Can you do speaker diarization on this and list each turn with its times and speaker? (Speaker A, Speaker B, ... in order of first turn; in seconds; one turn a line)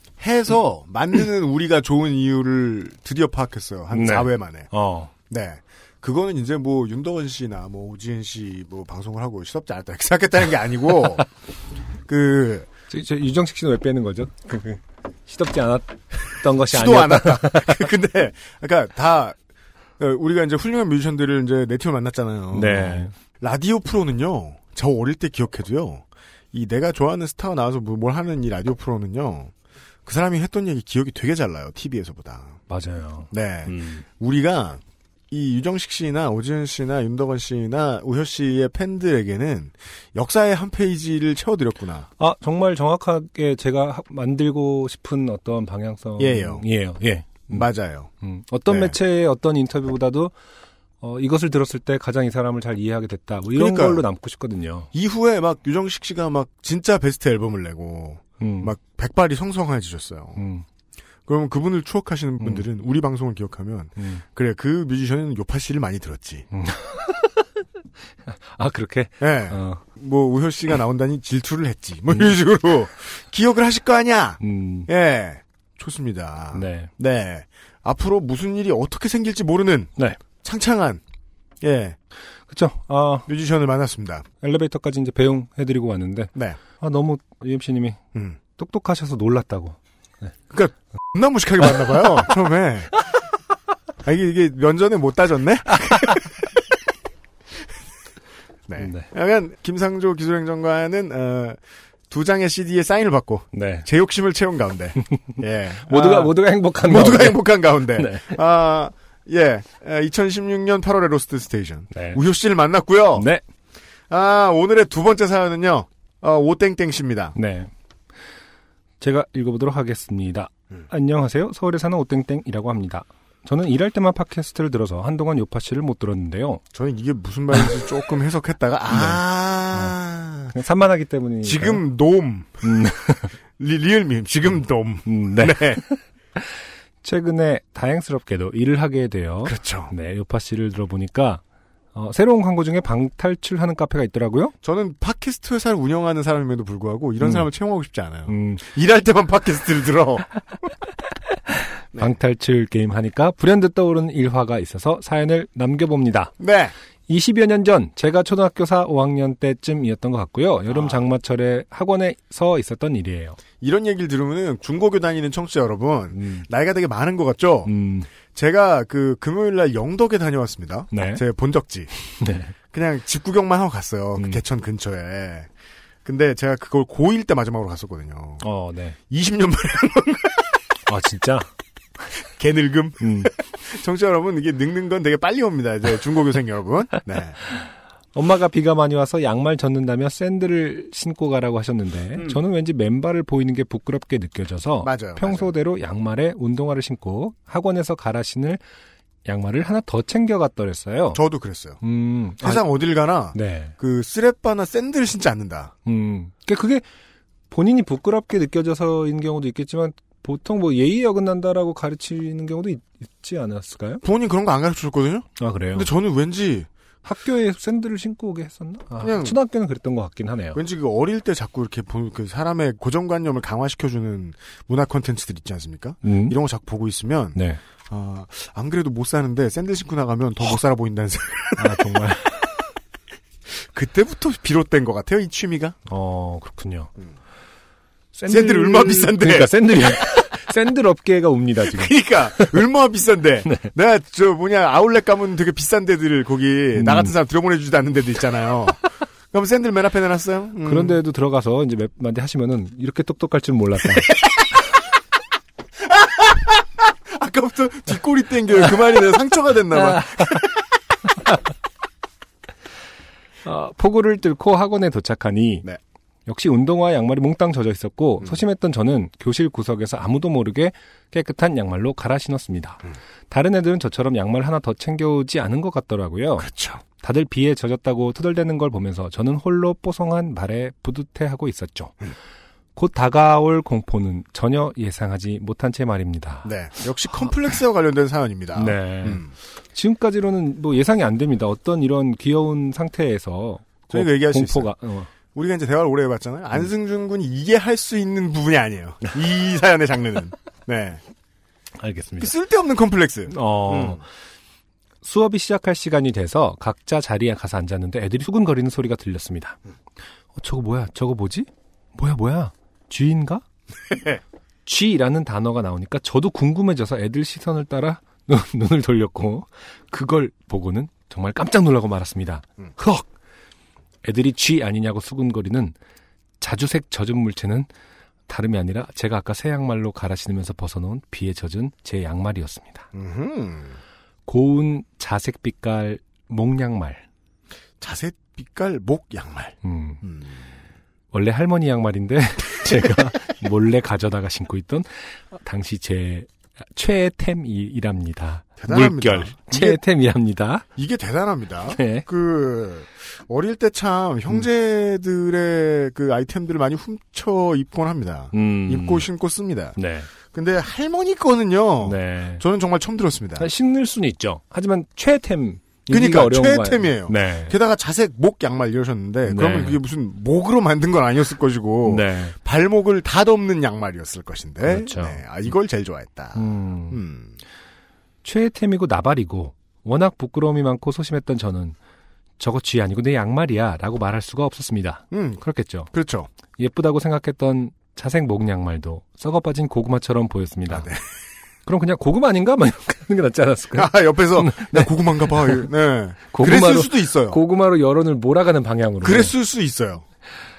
Speaker A: 0.2-4.7
Speaker B: 3.9-5.1
Speaker A: 5.3-11.3
Speaker A: 12.1-12.7
Speaker B: 12.9-17.8
Speaker A: 16.7-19.4
Speaker A: 20.0-29.5
Speaker B: 22.5-23.1
Speaker A: 30.1-32.6
Speaker B: 32.7-34.0
Speaker A: 33.3-42.1
Speaker B: 42.2-47.7
Speaker A: 46.2-46.7
Speaker A: 47.5-48.1
Speaker B: 48.2-50.3
Speaker A: 48.7-49.0
Speaker B: 51.0-54.9
Speaker A: 53.5-54.1
Speaker A: 54.9-60.4
Speaker B: 58.4-58.8
Speaker B: 60.4-60.6
Speaker A: 61.3-66.5
Speaker B: 62.4-62.6
Speaker B: 64.0-64.2
Speaker B: 66.5-67.5
Speaker B: 68.3-69.8
Speaker A: 69.2-81.0
Speaker B: 74.4-74.9
Speaker B: 76.5-76.9
Speaker A: 81.6-82.0
Speaker B: 82.5-83.3
Speaker A: 83.3-84.2
Speaker B: 84.4-88.0
Speaker B: 88.6-90.3
Speaker A: 90.5-93.0
Speaker B: 91.6-92.1
Speaker A: 94.0-96.5
Speaker A: 98.7-113.3
Speaker B: 98.8-99.1
Speaker B: 103.5-103.9
Speaker B: 105.9-108.4
Speaker B: 111.9-112.2
Speaker B: 113.2-113.4
Speaker A: 114.1-117.3
Speaker B: 117.3-117.7
Speaker B: 119.0-126.6
Speaker A: 126.7-130.6
Speaker B: 128.9-130.0
Speaker B: 130.5-131.8
Speaker A: 131.4-132.9
Speaker B: 132.6-133.3
Speaker A: 133.6-135.8
Speaker B: 135.1-136.5
Speaker B: 137.0-141.4
Speaker A: 139.4-139.9
Speaker B: 141.9-144.5
Speaker A: 144.6-150.3
Speaker B: 147.2-147.5
Speaker B: 148.3-148.6
Speaker B: 152.0-156.3
Speaker A: 156.4-156.8
Speaker B: 157.1-163.4
Speaker A: 160.7-161.0
Speaker A: 163.6-167.7
Speaker B: 166.1-166.5
Speaker B: 167.7-168.1
Speaker A: 168.3-171.9
Speaker B: 170.9-171.2
Speaker B: 172.0-172.6
Speaker A: 172.7-175.5
Speaker B: 174.2-174.4
Speaker A: 176.1-178.5
Speaker B: 178.4-179.0
Speaker A: 179.1-180.6
Speaker B: 180.9-181.5
Speaker A: 182.2-187.4
Speaker B: 183.0-183.3
Speaker B: 187.6-198.6
Speaker A: 192.2-192.4
Speaker A: 194.8-195.5
Speaker B: 199.2-201.2
Speaker A: 201.1-201.8
Speaker B: 201.8-202.6
Speaker A: 202.4-205.7
Speaker B: 203.3-203.7
Speaker B: 205.9-206.8
Speaker B: 207.5-214.0
Speaker A: 214.0-216.7
Speaker B: 215.4-215.9
Speaker B: 217.0-220.6
Speaker A: 219.0-219.4
Speaker A: 220.6-232.0
Speaker B: 226.0-226.4
Speaker B: 227.3-227.6
Speaker B: 231.6-232.3
Speaker A: 233.5-235.8
Speaker B: 235.9-236.9
Speaker B: 238.1-242.6
Speaker A: 238.3-239.5
Speaker A: 241.6-251.0
Speaker B: 243.4-243.7
Speaker B: 246.8-247.2
Speaker B: 250.7-254.2
Speaker A: 254.0-254.4
Speaker A: 255.9-260.6
Speaker B: 259.8-260.4
Speaker B: 263.4-265.7
Speaker B: 266.3-282.0
Speaker A: 276.4-276.8
Speaker B: 282.8-286.5
Speaker A: 286.4-289.3
Speaker B: 288.6-295.1
Speaker A: 293.9-294.7
Speaker A: 295.3-301.0
Speaker B: 301.8-302.3
Speaker A: 302.2-304.0
Speaker B: 303.3-304.1
Speaker B: 305.0-309.6
Speaker B: 310.4-313.4
Speaker A: 313.9-314.2
Speaker B: 314.7-323.1
Speaker B: 324.0-325.8
Speaker B: 326.4-327.7
Speaker B: 328.3-332.9
Speaker A: 332.9-333.8
Speaker B: 334.3-337.0
Speaker A: 337.8-340.4
Speaker B: 339.6-340.0
Speaker B: 341.1-350.6
Speaker A: 348.6-349.8
Speaker A: 350.8-363.5
Speaker B: 351.8-352.1
Speaker B: 358.3-359.1
Speaker B: 359.8-360.1
Speaker B: 361.8-362.4
Speaker B: 363.4-367.6
Speaker A: 365.9-377.4
Speaker B: 369.2-369.8
Speaker B: 371.9-372.4
Speaker B: 374.6-375.2
Speaker B: 376.4-377.0
Speaker B: 378.2-381.8
Speaker B: 382.4-385.9
Speaker A: 385.1-386.3
Speaker B: 386.6-390.9
Speaker A: 390.7-391.1
Speaker B: 391.7-395.7
Speaker A: 393.7-397.4
Speaker B: 396.3-399.3
Speaker A: 399.0-400.1